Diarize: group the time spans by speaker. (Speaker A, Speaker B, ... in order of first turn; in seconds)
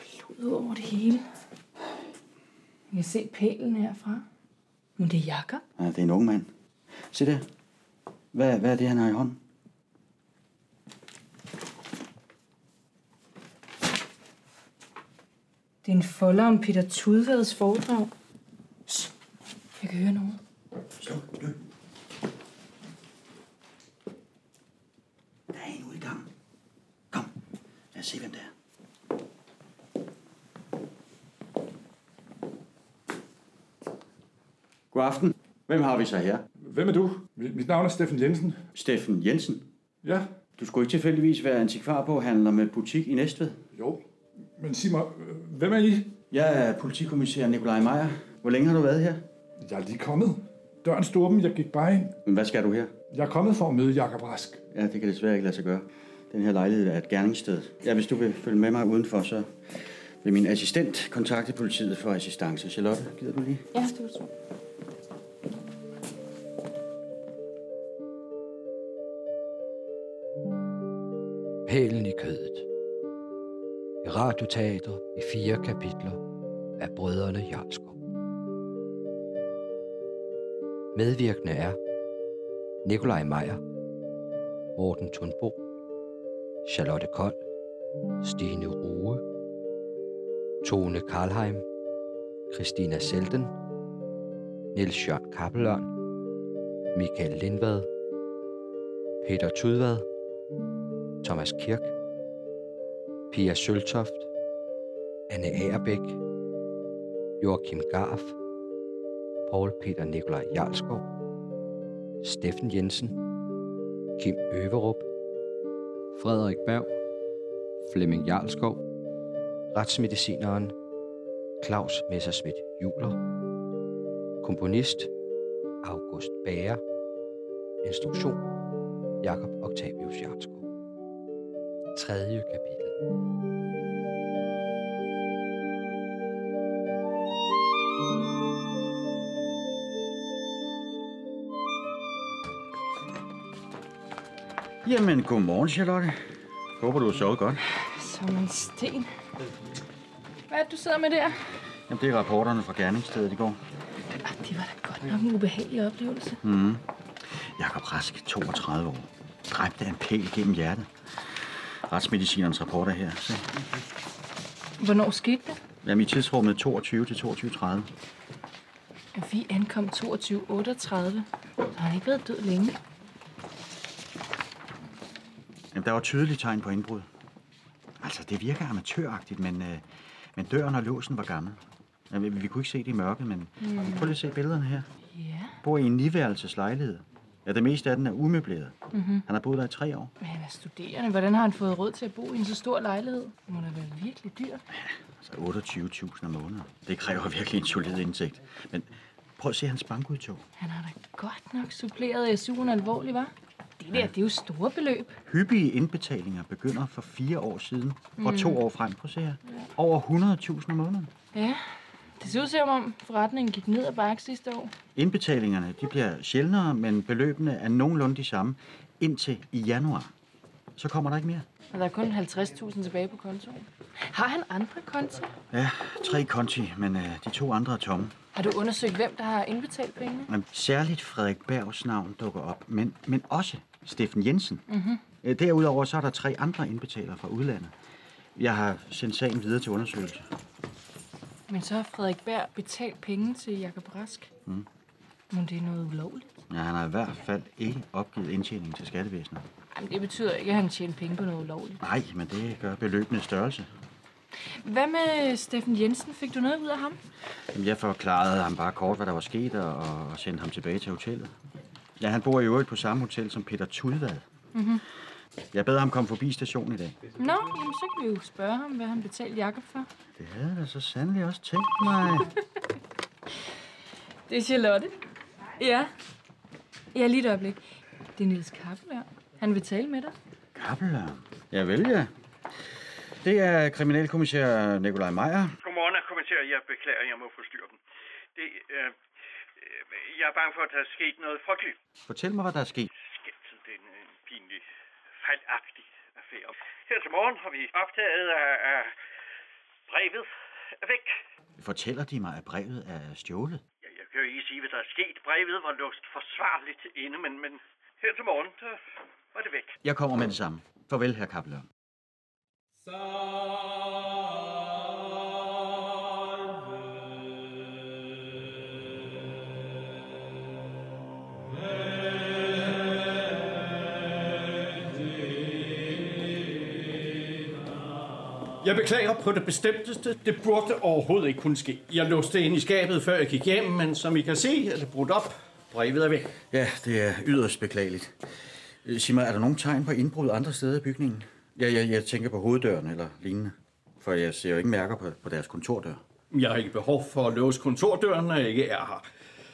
Speaker A: 0.1-1.2, 2.9-4.2, 5.0-5.6, 15.8-18.1, 19.8-20.4, 63.7-64.3, 147.7-149.1, 150.5-151.4, 154.1-156.4, 164.8-165.6, 169.1-172.8, 183.6-184.1, 185.1-185.6, 188.9-189.2, 190.2-194.6, 200.6-205.2, 208.2-208.6, 211.3-211.6, 212.2-214.7, 221.7-225.3, 228.3-230.3, 234.7-235.0, 241.5-244.3, 245.3-246.2, 249.7-251.8, 254.6-257.0, 267.2-269.9, 274.3-274.9, 275.6-275.9, 276.9-277.6, 278.1-280.1
Speaker B: 5.8-6.5, 7.1-7.5, 8.3-9.4, 21.0-21.6, 25.5-26.3, 27.9-28.5, 34.9-36.5, 38.7-39.7, 40.6-43.6, 46.3-49.2, 52.2-52.9, 54.7-59.5, 60.2-63.6, 144.8-146.2, 146.8-147.6, 151.9-153.6, 156.4-160.9, 161.9-163.5, 165.8-167.9, 175.7-177.1, 178.0-179.8, 180.3-181.6, 182.1-184.8, 185.6-188.7, 189.2-190.1, 194.7-200.4, 205.2-211.1, 214.9-220.1, 220.8-221.4, 225.5-228.1, 230.3-234.6, 235.2-237.7, 238.3-240.3, 246.5-249.4, 251.8-253.7, 257.5-261.3, 262.0-264.2, 265.5-267.0, 270.1-272.3, 280.5-282.1, 283.2-285.6, 292.1-292.9, 301.6-303.6, 309.8-311.7, 336.5-338.1, 338.8-346.0
Speaker C: 36.6-38.6, 40.0-40.3, 43.7-44.0, 44.6-46.1, 49.6-52.2, 53.1-54.6
Speaker D: 71.7-72.7, 74.0-76.2, 76.8-78.0, 80.9-81.8, 82.8-83.6, 84.7-85.6, 86.6-87.4, 88.2-89.2, 90.6-91.6, 92.5-93.5, 94.7-95.9, 96.9-97.9, 99.2-100.1, 101.2-101.9, 103.3-104.3, 105.3-106.2, 107.4-108.3, 109.5-111.1, 112.2-113.2, 114.2-115.1, 116.1-116.9, 117.8-118.8, 119.7-120.7, 121.6-123.2, 124.4-125.1, 125.8-126.8, 127.8-128.4, 129.2-130.6, 131.9-132.9
Speaker E: 285.6-287.8, 288.4-289.0, 289.6-291.8, 293.0-294.6, 295.2-298.9, 299.9-300.3, 300.8-301.2, 303.8-308.8, 309.3-309.8
Speaker F: 328.6-336.4, 346.3-349.0